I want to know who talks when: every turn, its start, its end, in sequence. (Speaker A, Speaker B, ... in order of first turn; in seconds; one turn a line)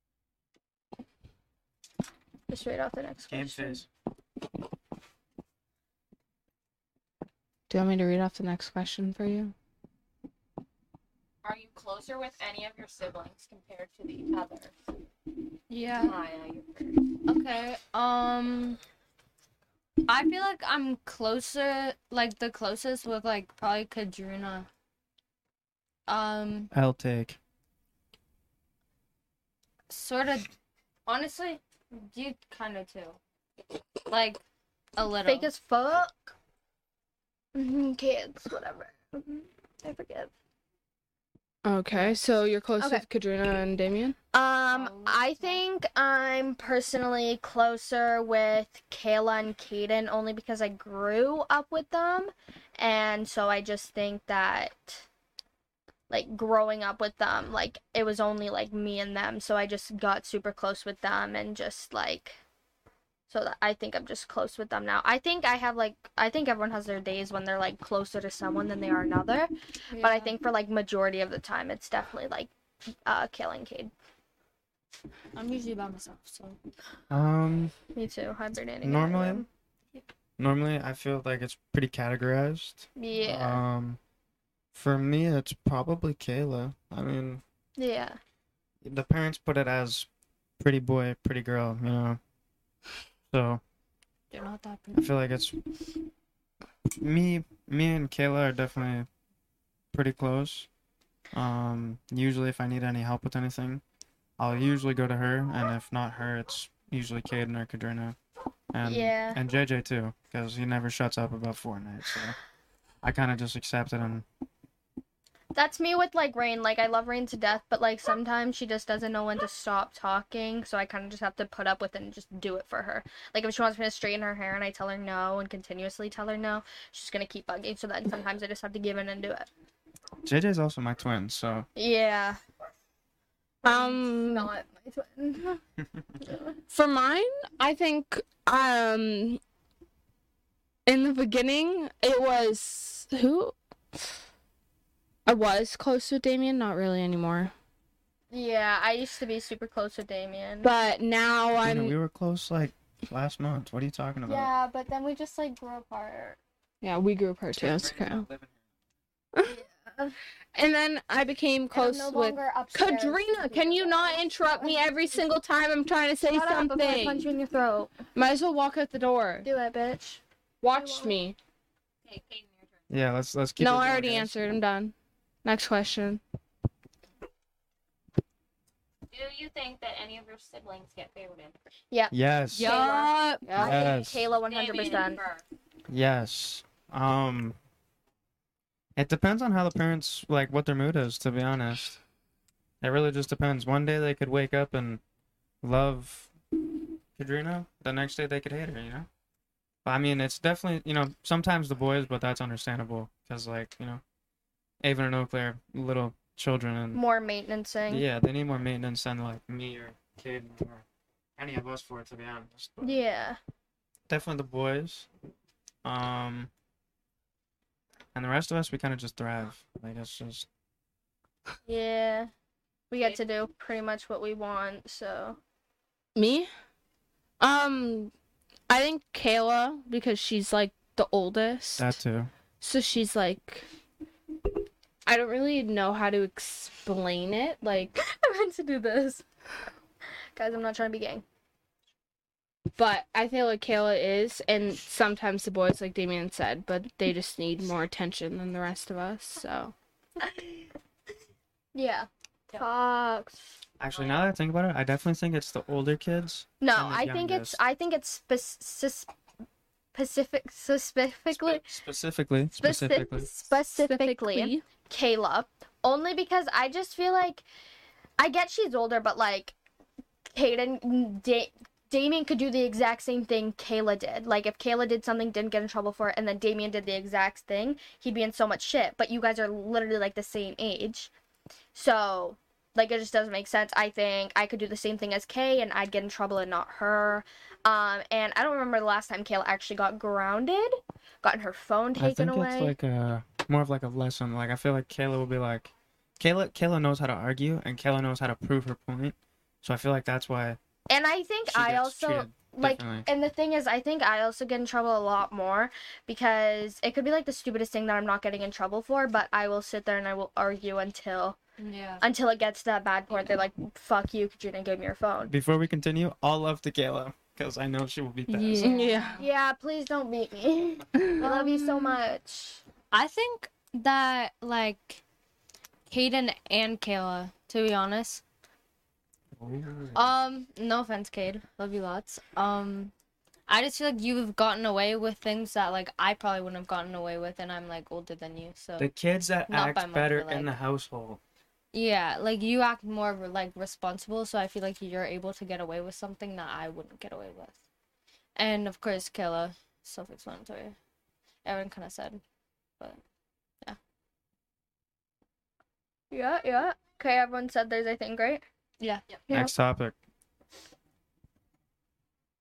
Speaker A: 2.5-3.8
Speaker B: 3.3-3.9
Speaker C: 7.7-9.5
Speaker D: 15.7-16.1
Speaker D: 17.2-18.8
Speaker D: 20.1-24.7
Speaker D: 26.1-26.7
Speaker B: 26.7-27.4
Speaker D: 29.9-30.5
Speaker D: 31.1-33.2
Speaker D: 34.1-34.4
Speaker D: 35.0-35.5
Speaker A: 35.2-36.3
Speaker A: 37.5-40.3
Speaker C: 41.6-44.1
Speaker A: 42.8-43.0
Speaker A: 44.3-55.0
Speaker D: 44.7-45.6
Speaker A: 56.1-62.4
Speaker A: 63.3-72.5
Speaker D: 69.9-70.3
Speaker A: 73.0-73.9
Speaker D: 75.3-76.6
Speaker B: 77.1-77.7
Speaker A: 77.9-79.5
Speaker B: 78.8-79.5
Speaker B: 80.4-84.0
Speaker A: 83.0-83.6
Speaker B: 84.7-87.4
Speaker A: 87.8-88.2
Speaker B: 88.8-90.1
Speaker B: 90.6-92.2
Speaker B: 93.3-93.6
Speaker D: 94.3-95.1
Speaker B: 95.0-95.5
Speaker B: 97.0-99.1
Speaker B: 99.9-100.7
Speaker B: 101.3-103.8
Speaker B: 104.4-108.2
Speaker B: 108.7-112.3
Speaker A: 108.8-109.4
Speaker B: 113.0-114.2
Speaker A: 115.5-129.5
Speaker B: 130.2-131.7
Speaker A: 131.8-132.4
Speaker A: 133.6-135.6
Speaker C: 133.6-134.5
Speaker A: 136.2-136.6
Speaker C: 136.7-139.4
Speaker C: 140.8-143.5
Speaker C: 145.2-147.5
Speaker A: 148.3-150.7
Speaker C: 150.6-151.9
Speaker B: 151.6-154.5
Speaker A: 154.3-156.4
Speaker C: 156.8-158.3
Speaker B: 157.5-158.5
Speaker A: 159.4-160.2
Speaker C: 160.5-167.3
Speaker A: 161.7-165.2
Speaker A: 166.3-167.9
Speaker C: 168.1-169.5
Speaker A: 169.4-170.2
Speaker C: 170.6-171.3
Speaker A: 170.7-171.2
Speaker E: 172.1-172.5
Speaker B: 172.9-174.3
Speaker C: 173.6-174.9
Speaker C: 175.4-176.2
Speaker E: 179.1-181.3
Speaker A: 181.9-185.2
Speaker B: 182.1-182.8
Speaker D: 182.5-183.6
Speaker C: 183.4-183.8
Speaker B: 183.6-184.3
Speaker E: 184.5-185.3
Speaker B: 185.9-187.6
Speaker B: 188.9-191.9
Speaker B: 192.8-195.0
Speaker B: 195.6-196.3
Speaker B: 197.2-199.1
Speaker B: 199.8-204.0
Speaker B: 204.8-207.0
Speaker A: 206.9-208.1
Speaker B: 207.9-210.8
Speaker B: 211.4-213.0
Speaker A: 212.8-213.4
Speaker B: 214.1-215.1
Speaker B: 215.8-216.5
Speaker B: 218.1-220.5
Speaker A: 221.7-222.3
Speaker A: 222.9-225.4
Speaker C: 226.2-226.5
Speaker C: 227.4-228.1
Speaker C: 228.7-231.9
Speaker B: 231.8-232.3
Speaker C: 232.6-233.6
Speaker C: 235.1-238.0
Speaker A: 238.0-239.2
Speaker A: 240.3-241.2
Speaker C: 242.8-249.7
Speaker A: 250.2-250.7
Speaker A: 251.7-253.4
Speaker B: 253.8-257.6
Speaker A: 256.6-259.1
Speaker A: 259.9-261.7
Speaker B: 261.3-263.3
Speaker A: 262.5-267.4
Speaker C: 263.7-264.6
Speaker A: 268.2-269.5
Speaker A: 270.3-281.1
Speaker A: 281.7-292.7
Speaker B: 291.9-300.6
Speaker A: 300.9-311.4
Speaker B: 301.5-303.1
Speaker D: 311.6-312.0
Speaker A: 312.0-315.3
Speaker B: 315.3-318.9
Speaker D: 318.3-319.2
Speaker C: 318.6-319.2
Speaker A: 319.2-322.6
Speaker C: 321.0-321.6
Speaker D: 321.2-321.9
Speaker D: 322.9-325.0
Speaker D: 325.9-328.2
Speaker B: 329.4-330.1
Speaker D: 329.9-332.9
Speaker D: 333.5-338.9
Speaker B: 338.8-341.2
Speaker D: 339.5-340.5
Speaker D: 341.7-347.6
Speaker D: 348.4-350.8
Speaker D: 351.4-352.2
Speaker A: 356.1-358.4
Speaker B: 359.3-359.9